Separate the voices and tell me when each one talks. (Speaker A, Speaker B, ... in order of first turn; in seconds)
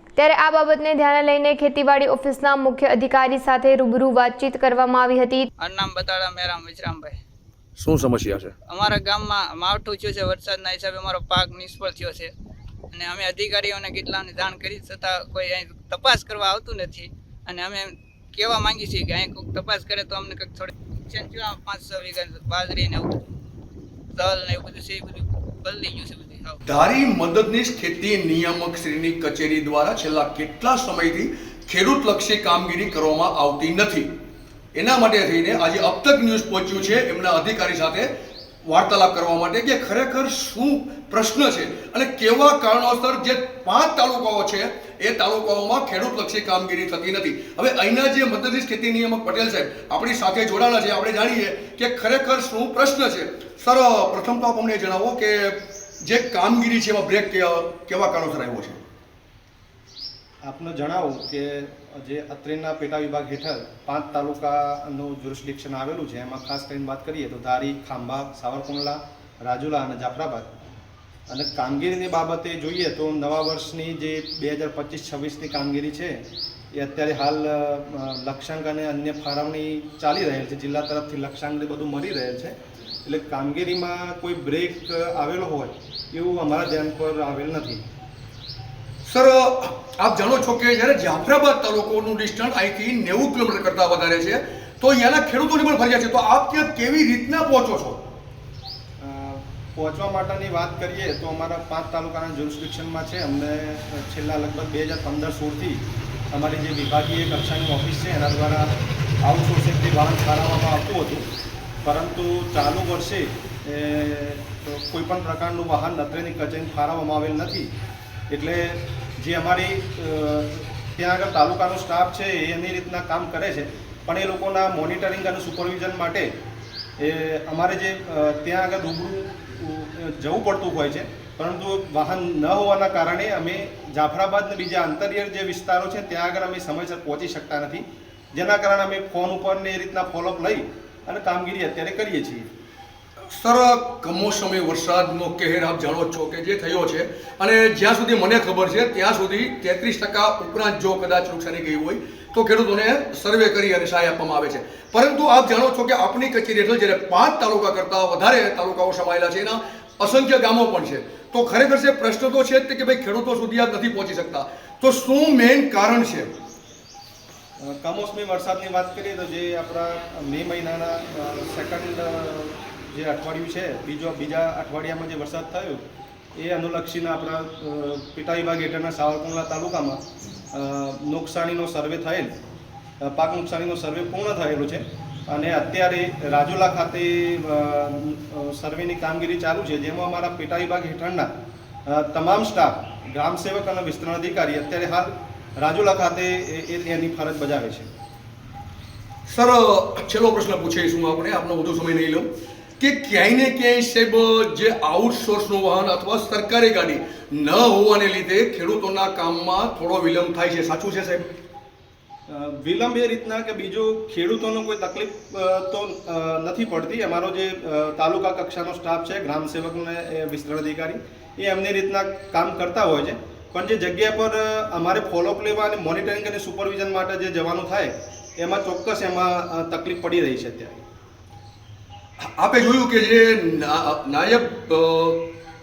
Speaker A: 0.1-5.5
Speaker B: 5.6-7.2, 8.7-12.3, 12.9-23.3, 24.1-26.6
Speaker C: 7.8-8.5, 26.6-34.1, 34.7-38.1, 38.7-58.9, 89.0-98.0, 143.3-166.3, 199.3-202.3, 202.8-211.2, 232.2-235.2
Speaker D: 60.4-70.5, 71.3-87.8, 99.0-111.3, 111.8-117.7, 118.3-126.3, 127.0-142.5, 167.6-175.8, 176.3-180.0, 180.5-182.3, 183.0-191.3, 191.9-197.9, 212.3-230.8